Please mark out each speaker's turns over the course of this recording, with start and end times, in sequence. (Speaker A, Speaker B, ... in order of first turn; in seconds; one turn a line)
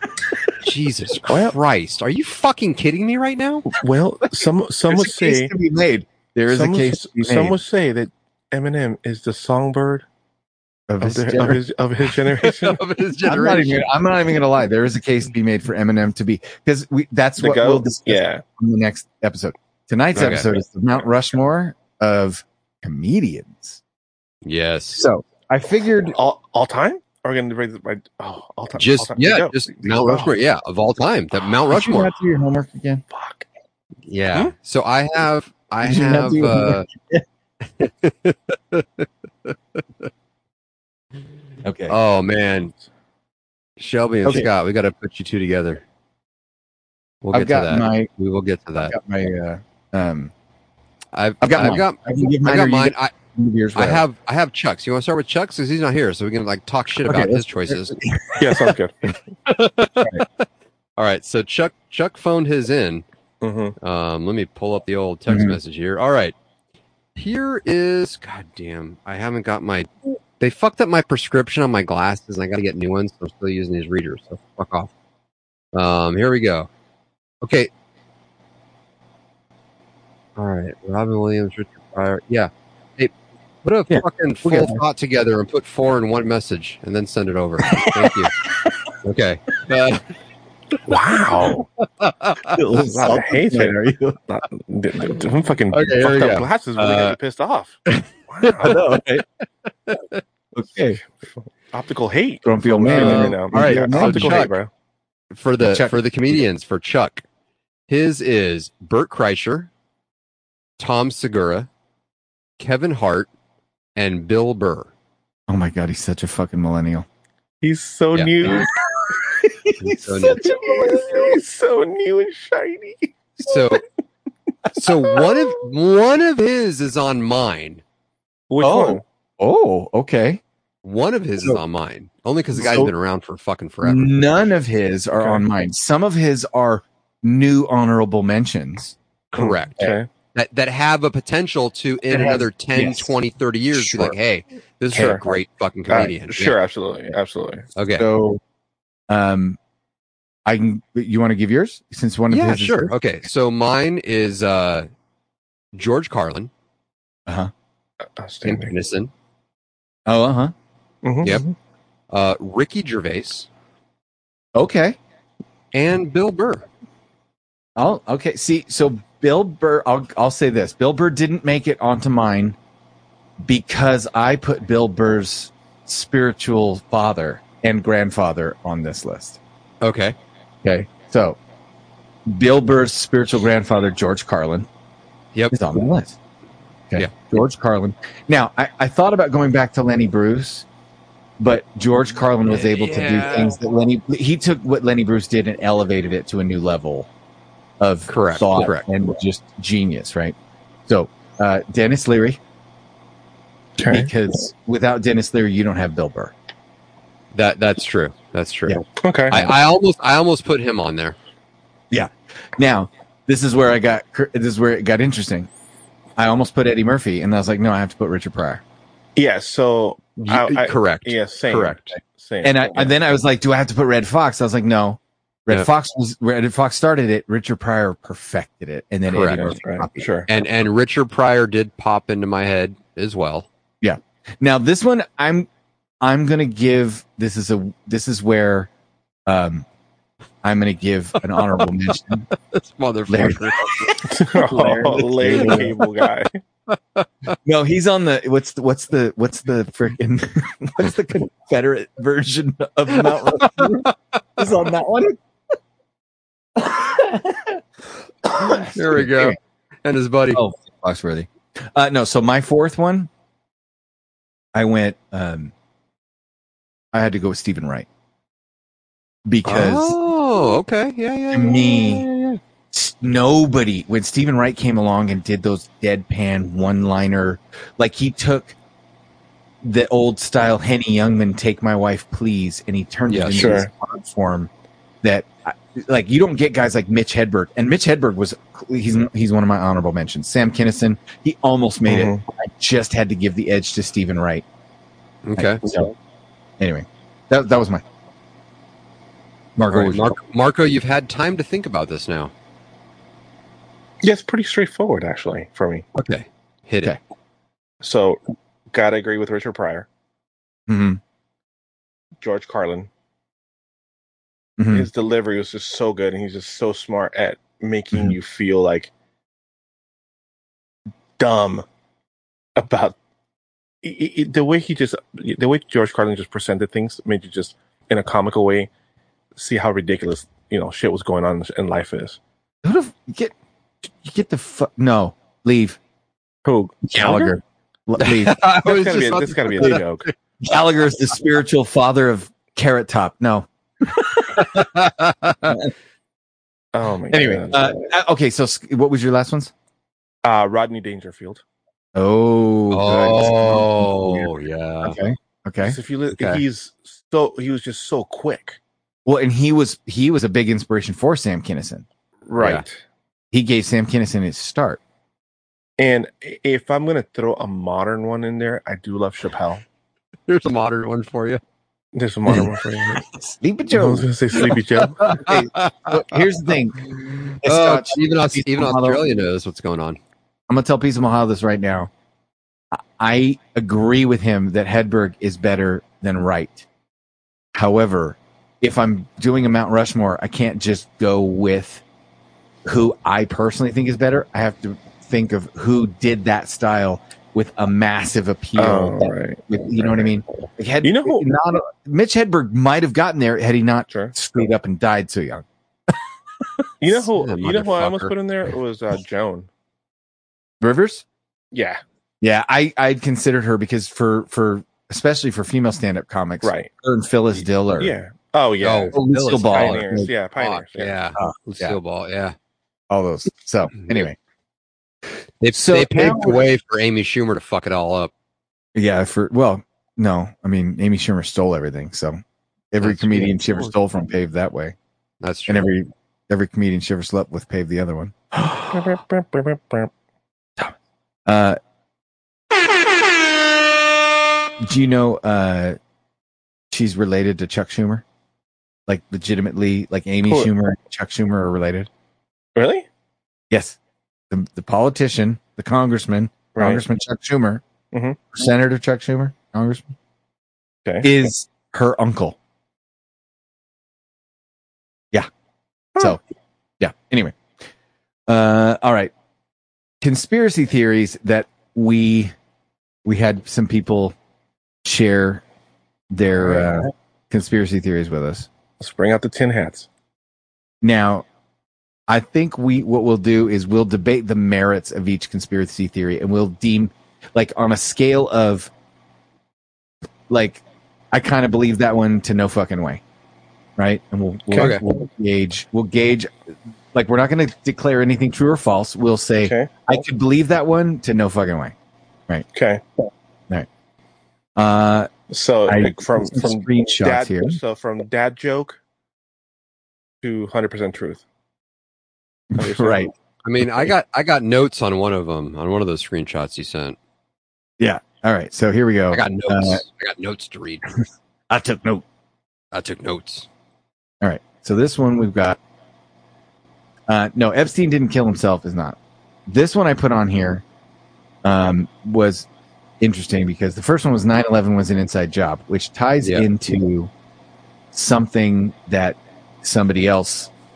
Speaker A: 0.6-3.7
Speaker B: 1.3-1.5
Speaker B: 3.8-5.5
Speaker C: 4.9-7.6
Speaker B: 6.5-10.1
Speaker C: 10.9-11.6
Speaker B: 11.0-12.8
Speaker A: 12.4-13.9
Speaker C: 13.2-23.8
Speaker B: 17.4-18.4
Speaker A: 20.1-20.5
Speaker A: 24.4-25.0
Speaker C: 25.0-26.2
Speaker B: 26.1-30.3
Speaker A: 28.8-32.1
Speaker C: 31.7-33.0
Speaker B: 33.1-33.5
Speaker A: 34.1-36.9
Speaker C: 35.8-37.2
Speaker A: 37.7-40.1
Speaker C: 41.6-42.0
Speaker A: 41.9-42.7
Speaker A: 43.8-45.8
Speaker A: 47.2-49.0
Speaker C: 47.3-48.1
Speaker C: 48.8-50.3
Speaker A: 51.1-53.1
Speaker C: 51.4-54.0
Speaker A: 53.8-58.0
Speaker C: 57.1-58.8
Speaker B: 58.4-59.0
Speaker A: 59.5-63.0
Speaker B: 63.4-63.8
Speaker A: 63.8-66.4
Speaker C: 65.3-65.6
Speaker A: 67.2-74.9
Speaker A: 75.7-76.7
Speaker A: 77.4-77.7
Speaker A: 80.4-88.4
Speaker C: 83.9-84.8
Speaker C: 87.6-88.9
Speaker A: 89.0-90.0
Speaker B: 90.9-91.7
Speaker A: 92.0-92.6
Speaker C: 92.4-94.2
Speaker B: 92.8-93.8
Speaker B: 94.3-98.8
Speaker A: 95.7-96.5
Speaker C: 96.8-97.2
Speaker C: 98.6-99.2
Speaker A: 99.9-100.2
Speaker C: 100.5-101.0
Speaker B: 101.7-104.7
Speaker C: 102.5-104.5
Speaker A: 102.9-104.5
Speaker A: 105.3-107.2
Speaker C: 105.6-106.0
Speaker A: 107.9-109.7
Speaker A: 110.8-111.7
Speaker A: 112.6-113.3
Speaker A: 114.0-114.9
Speaker C: 115.5-117.1
Speaker B: 117.6-118.7
Speaker A: 118.1-118.6
Speaker C: 119.3-121.4
Speaker A: 119.8-120.5
Speaker B: 120.3-123.1
Speaker A: 123.4-123.8
Speaker A: 124.8-127.8
Speaker B: 128.5-129.0
Speaker C: 128.6-130.4
Speaker A: 130.8-134.1
Speaker C: 132.6-132.9
Speaker C: 133.8-139.0
Speaker A: 139.3-146.6
Speaker B: 139.4-140.1
Speaker C: 142.1-143.1
Speaker C: 143.8-144.2
Speaker B: 144.9-145.2
Speaker B: 145.9-147.7
Speaker A: 147.8-148.1
Speaker C: 147.9-148.4
Speaker C: 149.1-149.6
Speaker C: 150.4-152.9
Speaker A: 152.3-154.9
Speaker A: 155.7-156.5
Speaker B: 158.2-158.7
Speaker A: 158.4-159.1
Speaker C: 160.1-160.5
Speaker B: 161.0-161.6
Speaker A: 162.1-163.5
Speaker C: 164.6-165.0
Speaker A: 165.7-166.7
Speaker C: 167.8-172.6
Speaker C: 173.4-179.4
Speaker A: 179.8-180.2
Speaker C: 180.6-181.4
Speaker C: 182.3-184.7
Speaker C: 185.5-186.2
Speaker C: 186.9-190.7
Speaker C: 191.4-197.1
Speaker A: 192.5-193.6
Speaker C: 197.8-200.4
Speaker A: 198.1-198.8
Speaker C: 200.9-202.4
Speaker B: 203.8-204.1
Speaker C: 203.9-206.3
Speaker A: 207.3-211.2
Speaker C: 208.7-209.5
Speaker B: 209.0-209.4
Speaker C: 211.9-215.5
Speaker C: 216.2-218.6
Speaker B: 219.2-222.9
Speaker A: 220.2-222.0
Speaker C: 222.4-230.1
Speaker A: 229.1-229.6
Speaker B: 229.4-230.3
Speaker A: 230.3-233.5
Speaker C: 233.8-235.5
Speaker C: 236.0-238.7
Speaker C: 239.3-239.7
Speaker C: 240.4-242.3
Speaker A: 242.3-244.0
Speaker C: 243.1-245.7
Speaker B: 244.1-246.3
Speaker A: 245.3-245.7
Speaker A: 246.7-247.3
Speaker C: 247.4-255.2
Speaker A: 253.0-253.9
Speaker C: 256.6-257.6
Speaker C: 258.2-259.4
Speaker A: 258.7-260.4
Speaker C: 260.3-263.1
Speaker C: 264.5-265.5
Speaker C: 266.9-267.9
Speaker C: 269.3-270.0
Speaker A: 269.4-272.4
Speaker C: 271.3-272.1
Speaker C: 272.7-278.6
Speaker C: 279.6-284.5
Speaker A: 283.1-283.6
Speaker B: 283.3-283.7
Speaker C: 285.0-294.4
Speaker B: 291.9-292.2
Speaker A: 295.2-295.6
Speaker C: 295.4-295.9
Speaker C: 296.6-297.8
Speaker C: 299.6-300.2
Speaker A: 299.7-302.3
Speaker B: 304.0-305.9
Speaker A: 305.9-307.0
Speaker B: 307.8-308.2
Speaker B: 308.7-309.9
Speaker C: 310.7-311.0
Speaker B: 312.2-312.9
Speaker C: 314.6-314.9
Speaker B: 314.7-318.9
Speaker B: 321.2-321.6
Speaker B: 322.6-322.9
Speaker B: 323.8-328.7
Speaker B: 329.4-332.2
Speaker C: 332.6-333.3
Speaker C: 334.0-335.8
Speaker B: 336.4-337.3
Speaker C: 336.9-338.4
Speaker A: 338.0-340.1
Speaker B: 338.6-340.1
Speaker C: 340.4-344.8
Speaker A: 344.4-345.6
Speaker B: 346.7-347.7
Speaker C: 347.1-349.5
Speaker B: 350.2-351.4
Speaker C: 351.9-355.8
Speaker A: 352.7-355.0
Speaker B: 355.6-358.6
Speaker A: 356.1-356.4
Speaker C: 359.1-361.9
Speaker B: 362.3-362.8
Speaker A: 362.4-362.6
Speaker C: 363.3-364.8
Speaker B: 365.8-369.6
Speaker A: 370.3-371.4
Speaker B: 371.9-373.0
Speaker C: 372.3-379.0
Speaker B: 373.7-375.2
Speaker A: 375.0-376.0
Speaker A: 377.4-380.0
Speaker C: 380.5-381.9
Speaker C: 382.7-386.7
Speaker C: 387.5-391.8
Speaker C: 392.6-405.9
Speaker B: 398.6-400.1
Speaker B: 400.8-401.2
Speaker B: 403.9-404.1
Speaker B: 406.8-409.5
Speaker A: 407.1-408.1
Speaker C: 410.6-411.0
Speaker B: 411.5-411.8
Speaker C: 412.2-418.0
Speaker B: 416.4-416.7
Speaker B: 417.8-421.0
Speaker A: 418.6-422.4
Speaker C: 418.9-420.1
Speaker C: 421.2-421.8
Speaker C: 422.9-424.2
Speaker A: 425.4-428.1
Speaker C: 425.5-426.5
Speaker C: 428.8-432.2
Speaker C: 432.7-434.8
Speaker A: 432.8-433.4
Speaker A: 435.2-435.7
Speaker C: 435.5-439.0
Speaker B: 438.7-439.9
Speaker C: 441.3-441.6
Speaker C: 444.6-445.8
Speaker C: 446.7-448.0
Speaker C: 448.9-451.9
Speaker B: 450.3-450.5
Speaker B: 452.6-452.9
Speaker C: 453.5-453.8
Speaker C: 454.3-457.6
Speaker B: 456.6-456.8
Speaker B: 457.9-458.2
Speaker C: 458.3-459.9
Speaker C: 461.0-462.4
Speaker C: 466.8-467.4
Speaker C: 468.3-469.1
Speaker C: 470.0-472.3
Speaker C: 473.1-474.2
Speaker C: 474.8-475.4
Speaker C: 476.1-478.5
Speaker B: 478.8-479.9
Speaker C: 480.8-481.3
Speaker C: 482.1-488.7
Speaker C: 490.3-493.0
Speaker C: 493.8-501.8
Speaker A: 494.5-494.8
Speaker B: 499.4-499.7
Speaker B: 502.6-502.8
Speaker C: 504.6-505.1
Speaker B: 505.3-508.8
Speaker C: 505.7-507.6
Speaker B: 510.2-511.2
Speaker C: 512.5-513.1
Speaker B: 512.6-513.1
Speaker A: 513.4-517.0
Speaker C: 517.8-519.8
Speaker A: 519.1-520.9
Speaker C: 521.5-522.0
Speaker A: 522.7-523.5
Speaker C: 524.2-525.6
Speaker C: 527.1-530.6
Speaker C: 531.4-532.5
Speaker C: 533.0-537.1
Speaker A: 536.2-536.5
Speaker C: 537.9-540.5